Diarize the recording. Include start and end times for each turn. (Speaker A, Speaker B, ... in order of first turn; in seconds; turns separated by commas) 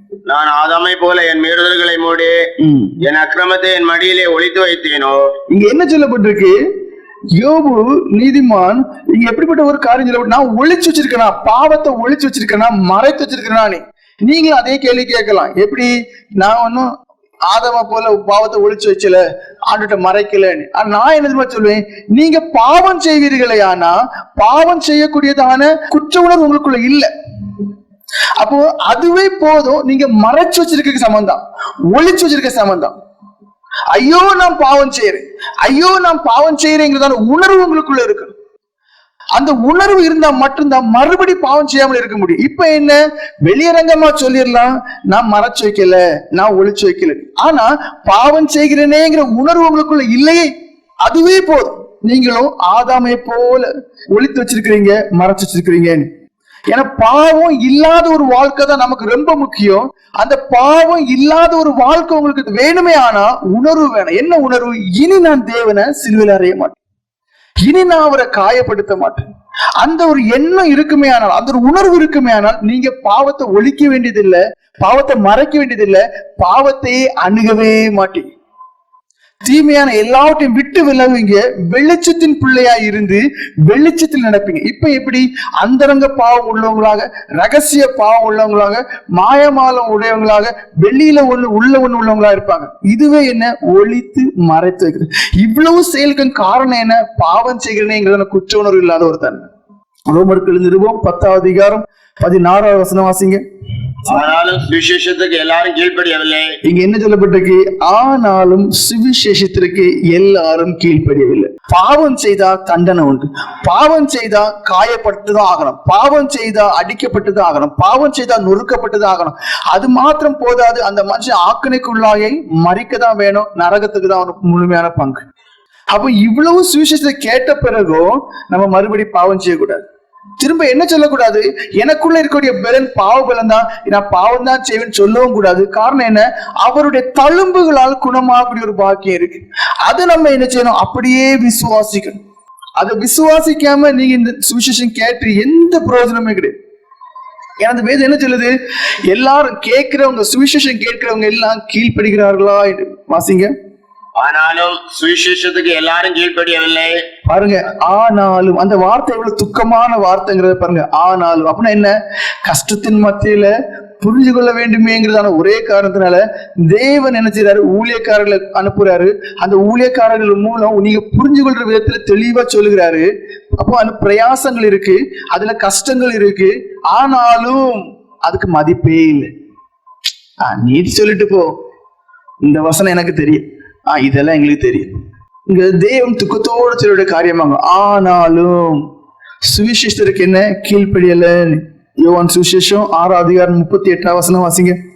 Speaker A: 0.2-2.4, Speaker B: 2.6-2.9, Speaker A: 3.0-5.3, Speaker B: 5.5-6.6, Speaker B: 7.3-16.9, Speaker B: 17.5-27.1, Speaker B: 28.4-31.4, Speaker B: 31.9-33.0, Speaker B: 33.9-38.3, Speaker B: 39.3-50.5, Speaker B: 51.0-56.1, Speaker B: 56.7-66.8, Speaker B: 67.6-69.2, Speaker B: 69.8-78.3, Speaker B: 79.4-99.5, Speaker B: 100.1-103.4, Speaker A: 104.1-106.5, Speaker B: 106.6-125.2, Speaker B: 125.9-129.8, Speaker B: 130.4-142.2, Speaker B: 142.8-146.5, Speaker B: 147.6-148.5, Speaker B: 149.1-153.5, Speaker A: 154.2-157.0, Speaker B: 157.2-161.9, Speaker B: 162.4-179.3, Speaker B: 180.4-181.5, Speaker B: 182.4-184.9, Speaker B: 185.5-188.8, Speaker B: 189.4-194.8